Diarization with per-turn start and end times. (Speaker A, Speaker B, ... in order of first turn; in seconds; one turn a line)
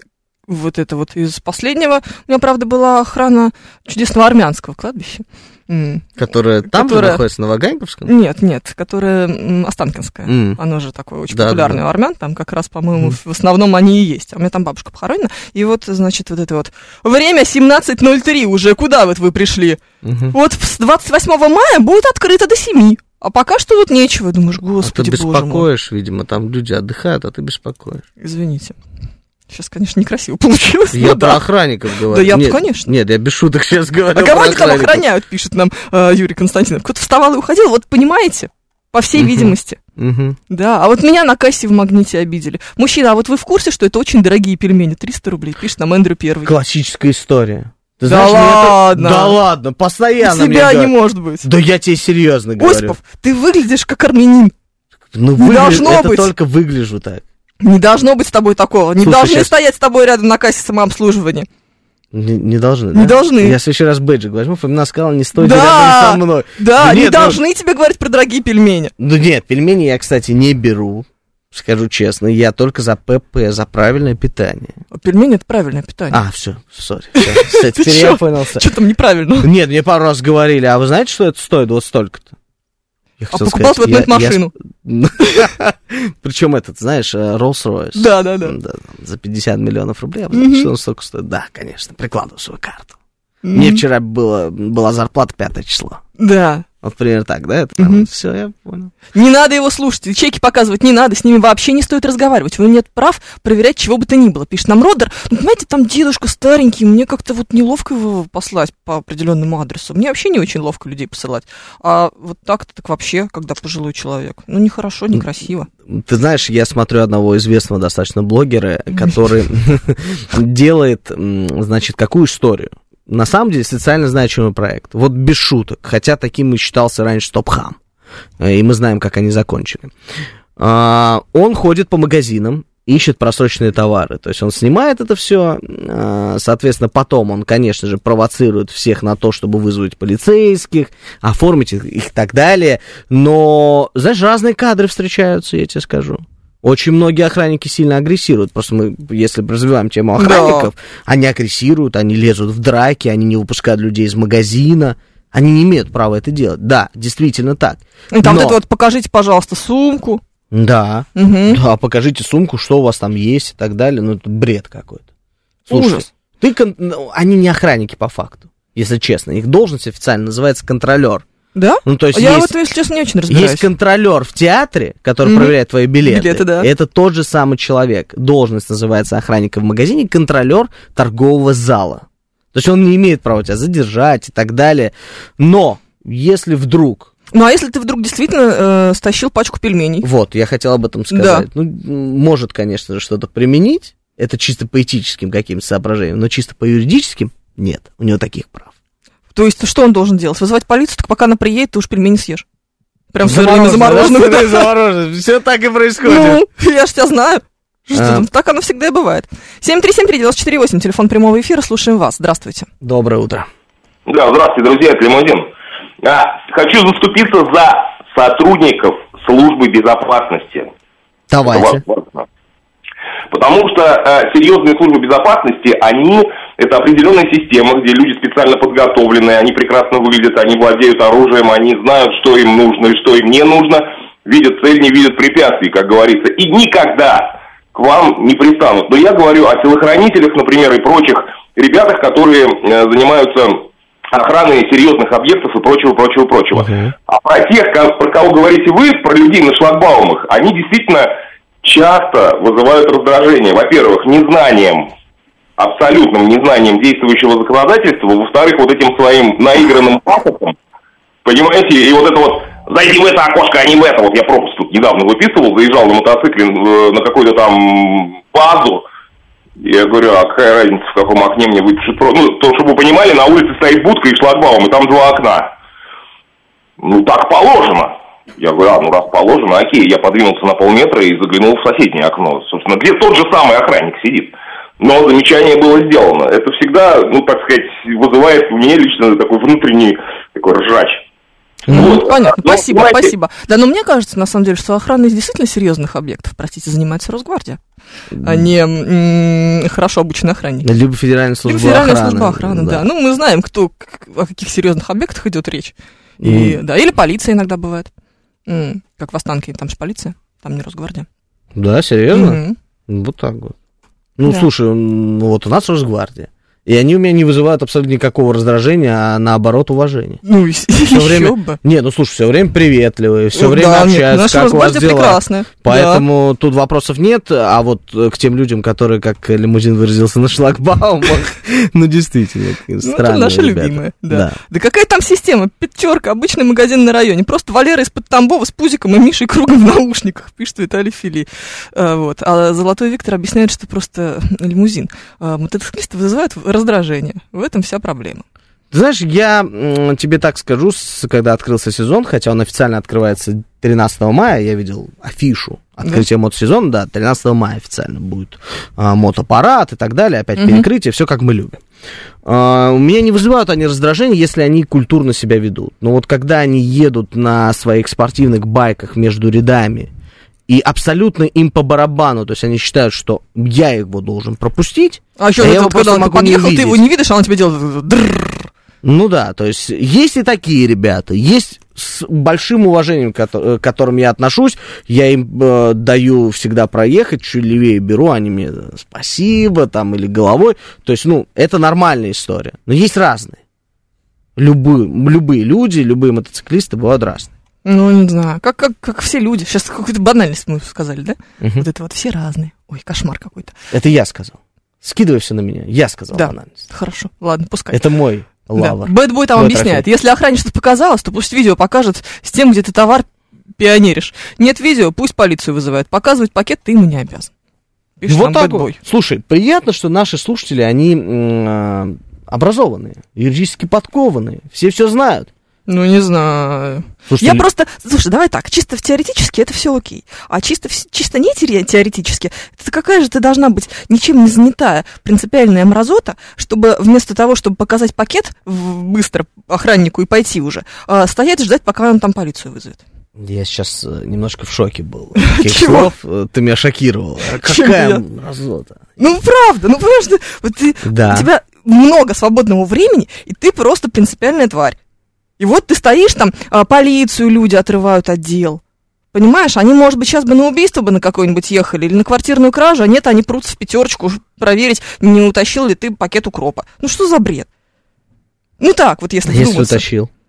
Speaker A: 0.5-6.1
Speaker B: 6.2-8.1
Speaker A: 6.7-7.2
Speaker A: 8.1-19.8
Speaker B: 10.3-10.6
Speaker B: 11.3-11.8
Speaker B: 20.0-20.4
Speaker A: 20.3-25.6
Speaker B: 24.8-28.0
Speaker A: 28.2-28.8
Speaker A: 29.5-31.4
Speaker B: 30.9-35.0
Speaker A: 32.1-32.9
Speaker A: 34.1-39.8
Speaker B: 39.1-40.4
Speaker A: 40.5-46.5
Speaker B: 46.4-53.0
Speaker A: 48.1-49.3
Speaker A: 50.2-51.5
Speaker A: 52.6-54.5
Speaker B: 55.1-57.2
Speaker A: 55.4-56.3
Speaker A: 57.6-61.5
Speaker B: 59.0-59.5
Speaker B: 62.1-67.4
Speaker A: 62.9-63.6
Speaker A: 65.4-68.9
Speaker B: 69.0-74.7
Speaker A: 74.9-76.2
Speaker B: 76.1-78.7
Speaker A: 77.2-79.5
Speaker B: 79.4-82.3
Speaker B: 83.2-93.0
Speaker A: 83.3-84.5
Speaker A: 88.0-88.5
Speaker A: 90.3-90.7
Speaker A: 93.4-93.8
Speaker B: 93.5-96.0
Speaker A: 96.2-96.7
Speaker B: 96.8-98.9
Speaker A: 97.8-98.1
Speaker A: 99.1-115.7
Speaker B: 115.9-127.8
Speaker B: 128.4-129.9
Speaker B: 130.6-158.6
Speaker A: 150.2-150.7
Speaker A: 158.1-160.2
Speaker B: 160.5-165.0
Speaker A: 161.2-161.6
Speaker A: 165.7-166.1
Speaker B: 165.7-171.2
Speaker A: 171.5-173.7
Speaker B: 171.8-172.5
Speaker B: 173.3-187.1
Speaker A: 175.2-175.5
Speaker A: 176.1-176.7
Speaker A: 187.3-190.1
Speaker B: 190.0-198.7
Speaker A: 191.1-191.4
Speaker A: 199.3-202.4
Speaker A: 203.1-204.7
Speaker B: 203.2-206.4
Speaker A: 206.0-212.7
Speaker B: 207.9-208.3
Speaker B: 212.8-213.5
Speaker C: 214.1-215.5
Speaker C: 216.0-220.7
Speaker B: 221.3-221.8
Speaker C: 221.4-222.2
Speaker C: 223.3-251.1
Speaker B: 246.5-246.9
Speaker C: 251.6-254.9
Speaker C: 255.6-260.6
Speaker C: 261.2-268.8
Speaker C: 269.6-275.5
Speaker C: 276.8-291.0
Speaker B: 291.7-292.0
Speaker C: 291.7-293.1
Speaker A: 291.7-297.6
Speaker B: 298.1-298.5
Speaker A: 298.2-300.7
Speaker B: 300.6-302.9
Speaker A: 301.4-307.9
Speaker B: 306.2-306.6
Speaker A: 308.5-311.1
Speaker B: 311.5-313.5
Speaker A: 312.1-312.6
Speaker B: 314.2-320.2
Speaker A: 320.2-321.6
Speaker B: 320.8-334.4
Speaker A: 323.3-326.0
Speaker A: 332.8-348.2
Speaker B: 348.7-361.6
Speaker A: 360.4-360.6
Speaker B: 362.2-369.9
Speaker B: 370.5-376.8
Speaker A: 375.2-378.5
Speaker B: 378.8-393.4
Speaker B: 394.4-397.3
Speaker A: 397.6-403.5
Speaker B: 401.4-401.7
Speaker B: 403.7-406.6
Speaker A: 406.1-407.8
Speaker B: 407.7-409.9
Speaker A: 408.6-417.3
Speaker A: 418.0-418.8
Speaker B: 418.1-425.3
Speaker A: 425.7-442.8
Speaker B: 427.1-427.4
Speaker B: 443.2-448.9
Speaker A: 445.2-445.9
Speaker A: 447.4-448.0
Speaker A: 449.0-454.8
Speaker B: 450.8-451.3
Speaker A: 455.4-458.6
Speaker A: 459.1-467.5
Speaker A: 468.6-469.8
Speaker B: 469.2-470.1